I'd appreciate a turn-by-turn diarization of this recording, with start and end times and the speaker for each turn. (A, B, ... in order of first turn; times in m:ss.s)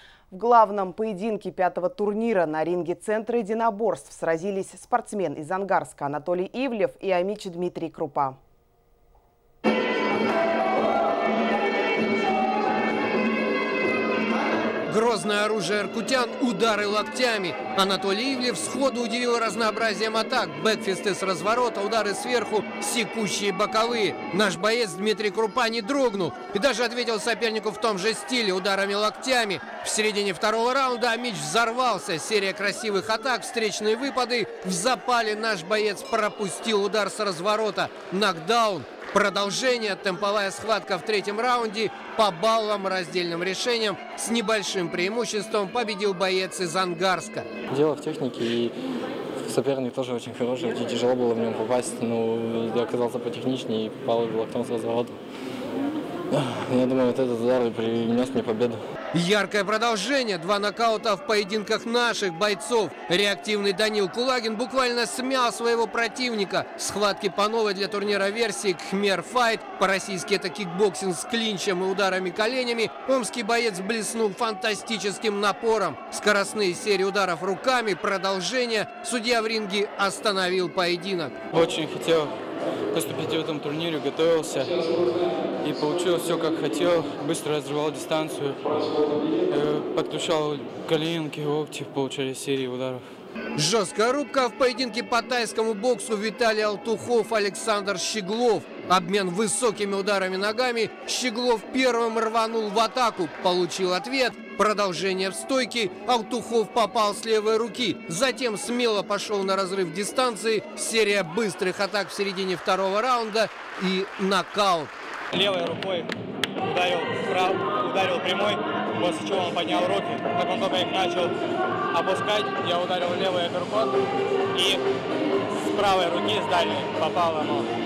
0:00.3-0:08.4 A
0:14.9-0:47.5 B
0:47.7-0:48.7 C
0:49.4-0:55.2 C
0:56.3-0:58.8 C
0:59.1-1:21.4 B
1:21.5-1:22.3 D
1:22.9-1:33.0 D
1:33.6-1:54.9 B
1:55.3-1:56.1 E
1:56.6-2:01.3 E
2:01.9-2:04.0 E
2:04.5-2:04.8 E
2:05.6-2:07.7 E